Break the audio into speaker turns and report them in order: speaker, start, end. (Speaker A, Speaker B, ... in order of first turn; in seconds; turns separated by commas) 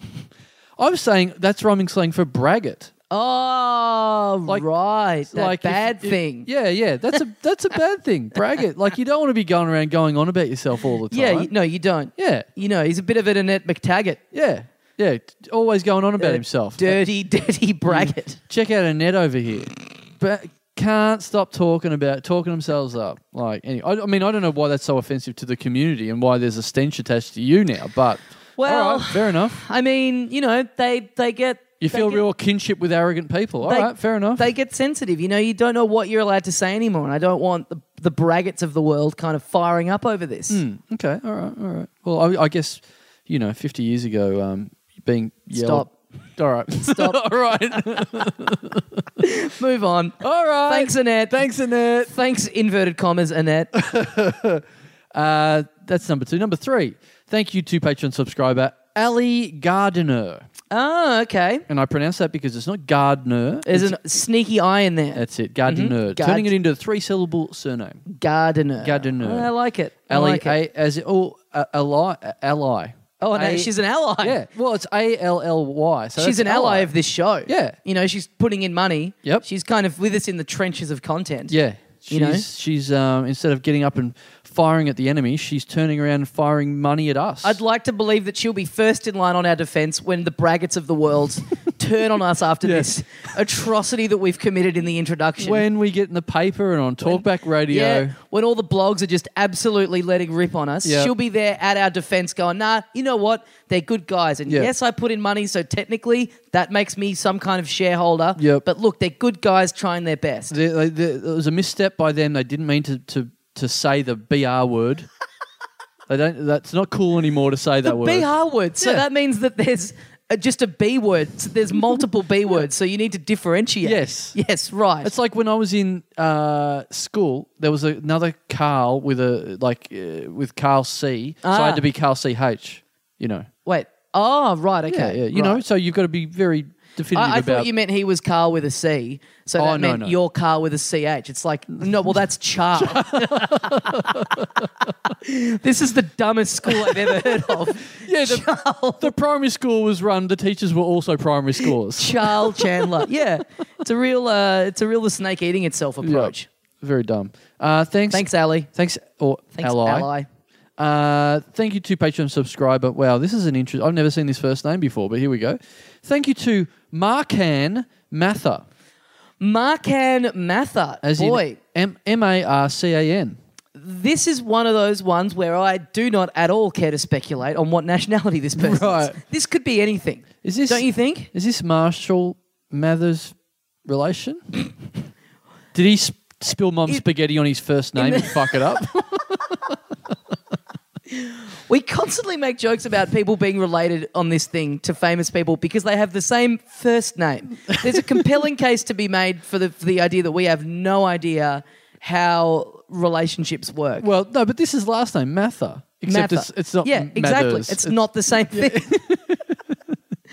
Speaker A: 0.8-2.9, Speaker B: 3.1-6.5, Speaker A: 5.3-11.5, Speaker B: 11.1-14.2, Speaker A: 12.2-12.5, Speaker A: 14.3-17.0, Speaker B: 16.2-18.4, Speaker A: 17.9-29.6, Speaker B: 28.6-32.2, Speaker A: 31.8-34.5, Speaker B: 33.6-40.6, Speaker A: 40.5-49.0, Speaker B: 45.5-45.9, Speaker B: 46.8-47.2, Speaker B: 49.2-51.5, Speaker A: 50.2-52.1, Speaker B: 52.0-53.7, Speaker A: 53.7-60.4, Speaker B: 60.7-61.6, Speaker A: 61.7-64.0, Speaker B: 63.6-66.5, Speaker A: 65.1-68.0, Speaker B: 68.1-70.6, Speaker A: 68.8-69.5, Speaker A: 70.1-76.9, Speaker B: 73.2-74.4, Speaker B: 76.2-81.5, Speaker A: 77.5-77.8, Speaker A: 81.5-87.6, Speaker B: 82.1-82.4, Speaker B: 87.4-95.7, Speaker A: 92.6-92.9, Speaker A: 95.4-98.1, Speaker B: 97.0-110.5, Speaker A: 100.8-101.1, Speaker A: 108.4-108.6, Speaker A: 110.5-115.0, Speaker A: 116.1-118.3, Speaker B: 117.8-125.1, Speaker A: 123.8-124.3, Speaker A: 125.0-133.5, Speaker B: 131.4-131.8, Speaker B: 133.7-135.6, Speaker A: 134.9-137.7, Speaker B: 137.1-144.5, Speaker A: 139.6-140.2, Speaker A: 142.8-144.9, Speaker B: 145.1-149.1, Speaker A: 146.8-148.5, Speaker A: 149.0-153.1, Speaker B: 151.6-156.5, Speaker A: 156.0-160.1, Speaker B: 158.1-158.7, Speaker B: 159.5-160.3, Speaker A: 160.8-168.6, Speaker B: 169.4-171.6, Speaker A: 171.0-173.4, Speaker B: 173.8-181.3, Speaker A: 178.6-179.2, Speaker A: 180.4-183.3, Speaker A: 183.8-184.4, Speaker A: 185.7-189.7, Speaker B: 188.0-189.0, Speaker B: 191.1-204.1, Speaker A: 197.9-198.3, Speaker A: 204.0-209.8, Speaker B: 206.1-208.9